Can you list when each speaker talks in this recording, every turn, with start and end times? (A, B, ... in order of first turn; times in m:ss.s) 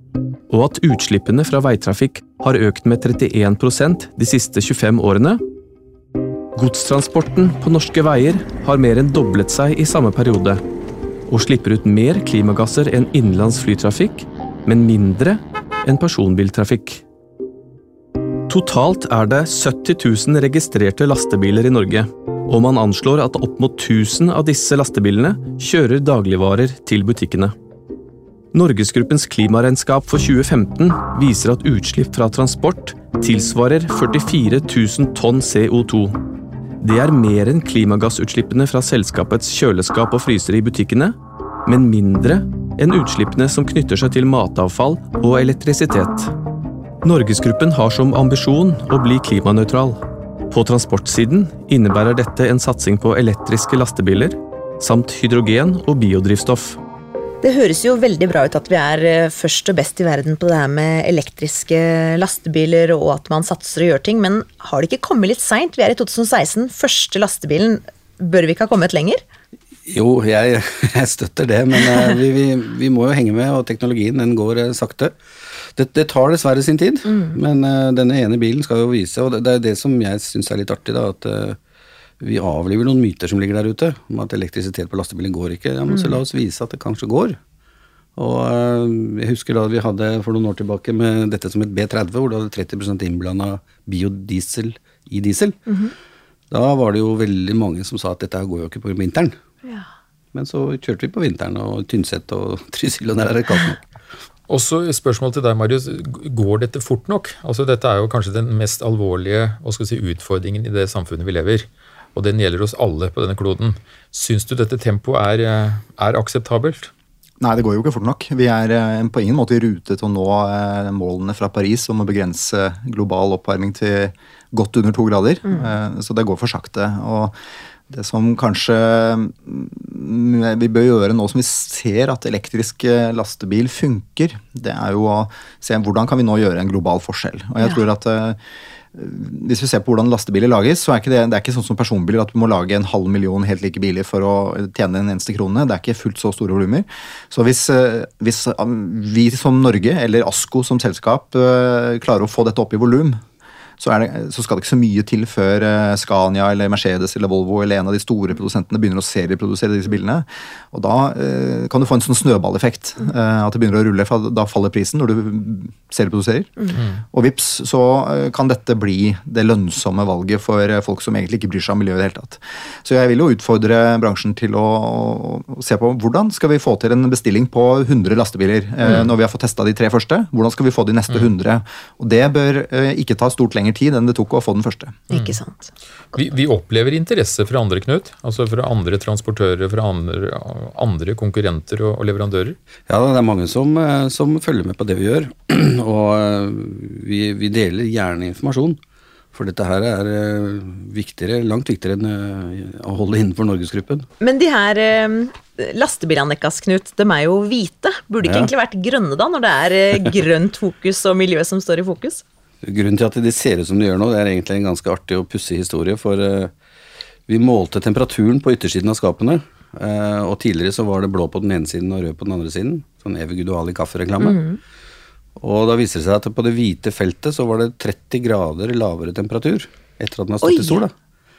0:00.5-0:05.4 A
0:06.5-0:10.6 A
0:11.3-0:17.0 A
0:18.5-0:27.5 A
0:28.5-0:36.2 A
0:36.8-0:46.3 A
0:47.0-0:56.8 A
0:57.4-1:09.2 B
1:09.9-1:15.1 C
1:15.8-1:21.6 C
1:22.2-1:27.4 C
1:25.9-1:26.2 B
1:28.2-1:35.8 C
1:36.5-1:39.4 C
1:40.3-1:43.8 C
1:44.5-1:56.9 D
1:57.4-2:07.3 E
2:07.9-2:18.4 E
2:18.9-2:33.2 E
2:33.8-3:05.0 E
3:05.1-3:06.2 B
3:06.1-3:12.6 D
3:12.9-3:18.8 C
3:19.3-3:24.0 C
3:24.2-3:32.2 B
3:28.2-3:28.5 C
3:32.6-3:36.5 C
3:37.3-3:44.4 C
3:44.2-3:44.6 B
3:45.4-3:50.9 C
3:50.4-3:50.8 B